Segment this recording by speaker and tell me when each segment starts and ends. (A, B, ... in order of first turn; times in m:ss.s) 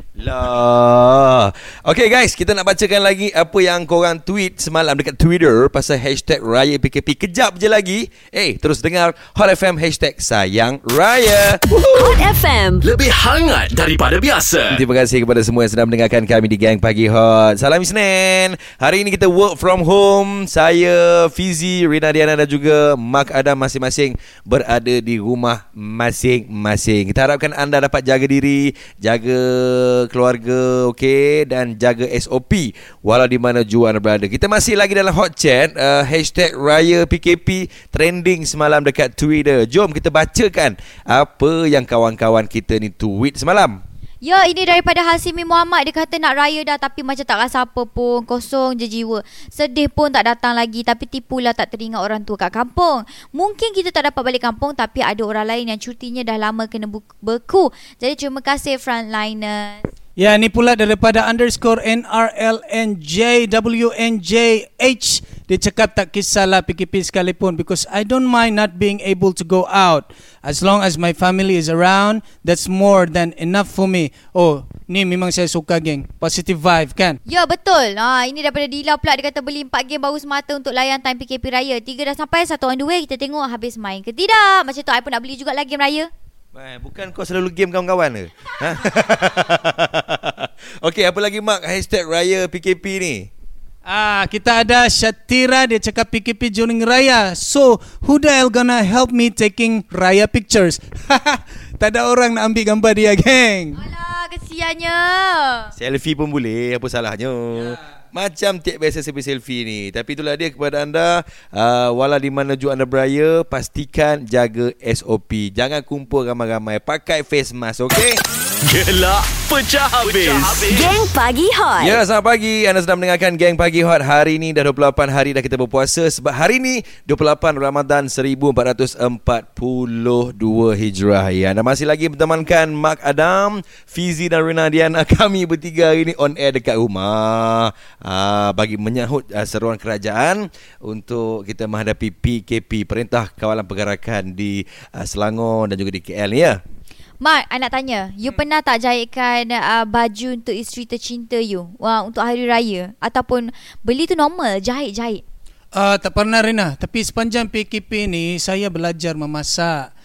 0:00.2-0:12.2 A
0:11.8-0:12.8 B
0:12.8-0:14.8 C
0:14.7-0:43.8 A
0:44.2-0:59.9 D
1:00.2-1:17.2 E
1:17.3-1:26.1 D
1:26.6-1:33.3 A
1:33.9-1:43.8 E
1:43.8-1:45.7 D
1:45.8-1:58.2 A
1:58.6-2:00.9 C
2:00.7-2:02.0 B
2:01.8-2:26.6 A
2:27.2-2:35.2 D
2:35.7-2:39.9 E